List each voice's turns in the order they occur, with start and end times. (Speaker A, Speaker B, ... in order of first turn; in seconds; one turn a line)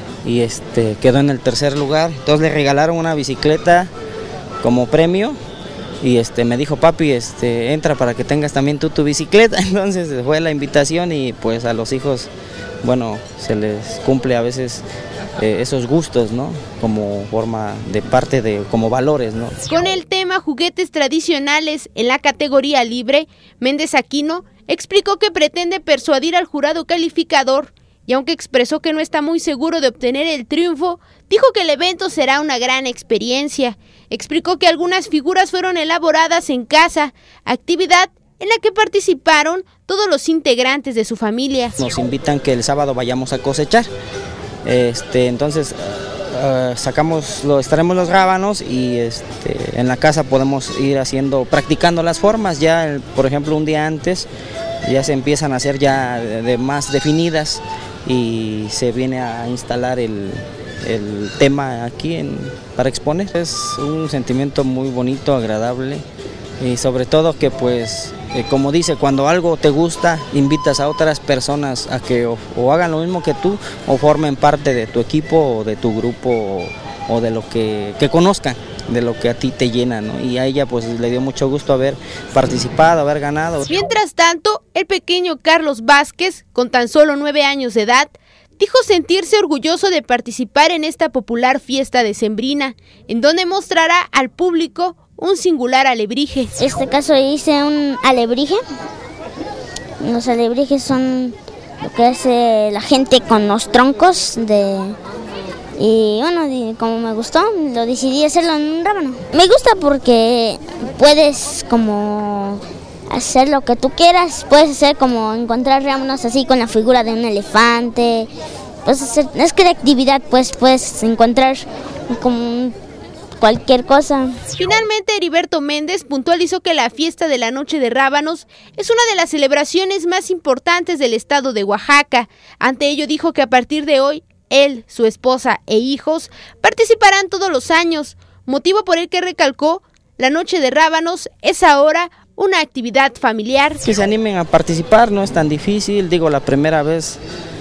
Speaker A: 0.2-3.9
Speaker A: 4.6-5.4
Speaker A: 6.0-12.3
Speaker A: 12.8-14.8
Speaker A: 15.4-19.6
Speaker B: 19.7-41.8
Speaker A: 41.8-43.9
Speaker A: 44.6-54.3
Speaker A: 54.8-66.0
Speaker A: 66.6-83.7
Speaker B: 83.7-96.6
Speaker C: 96.6-98.6
Speaker C: 100.0-105.0
Speaker C: 105.8-118.3
Speaker C: 118.8-122.8
Speaker C: 123.4-124.4
Speaker B: 124.5-143.8
Speaker A: 143.8-147.2